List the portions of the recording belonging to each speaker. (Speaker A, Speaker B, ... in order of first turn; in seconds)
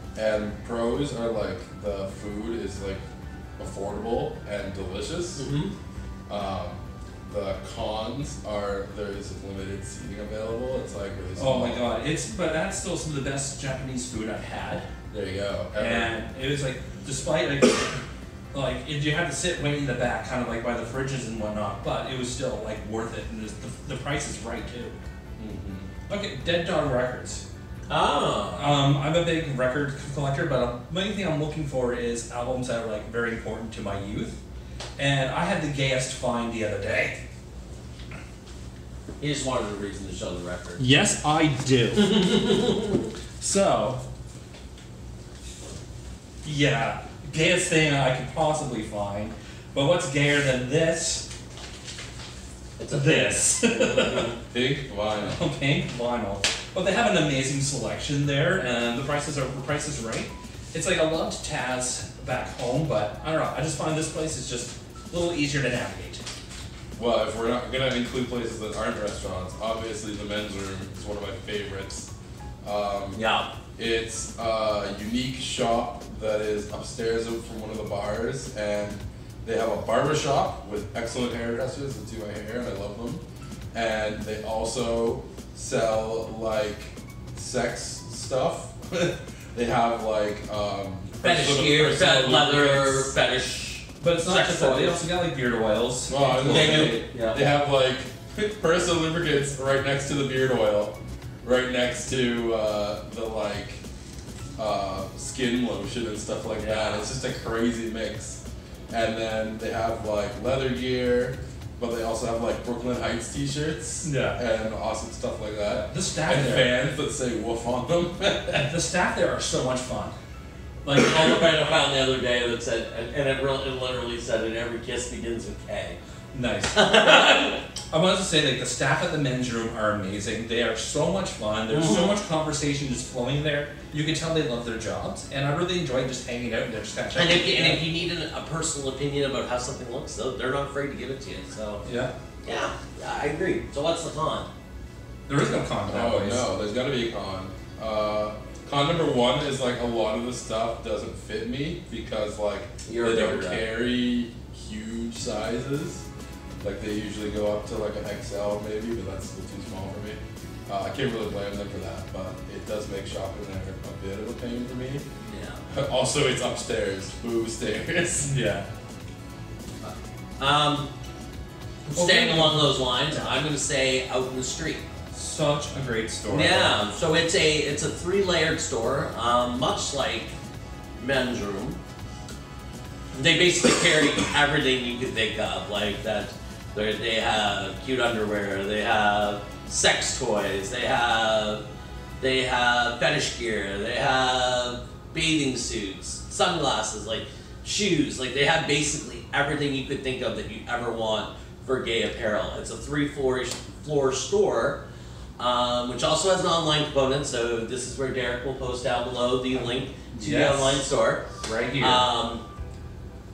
Speaker A: 0.2-3.0, 3.6-5.5, 6.3-11.8, 15.1-16.1, 25.4-25.9, 54.5-55.4, 67.0-72.1, 72.6-73.2, 73.8-93.1, 96.1-103.8, 104.6-118.7, 145.9-156.1, 156.6-165.0, 165.7-168.3
Speaker B: 5.4-5.8, 27.9-28.9, 39.2-40.9, 42.0-43.1, 52.8-54.4, 73.1-73.5, 91.2-95.0, 96.5-97.4, 106.6-107.1, 120.9-126.0, 126.7-127.6, 131.7-132.2, 137.1-141.8, 142.4-144.5, 152.8-153.6, 165.3-165.6, 169.8-170.9, 171.9-174.9, 176.3-180.3, 181.0-181.8, 183.1-191.7, 192.2-204.8, 205.4-212.4
Speaker C: 11.4-14.9, 15.8-18.0, 18.5-25.0, 26.1-27.4, 28.6-34.4, 35.0-37.2, 40.8-42.3, 43.4-44.0, 46.4-51.3, 52.9-54.3, 55.2-66.2, 94.0-97.0, 114.0-114.4, 115.9-116.7, 118.5-120.2, 120.8-121.5, 126.3-137.8, 141.8-142.1, 145.3-146.5, 168.2-168.7, 171.9-172.7, 175.1-176.8, 209.6-210.8, 211.4-212.1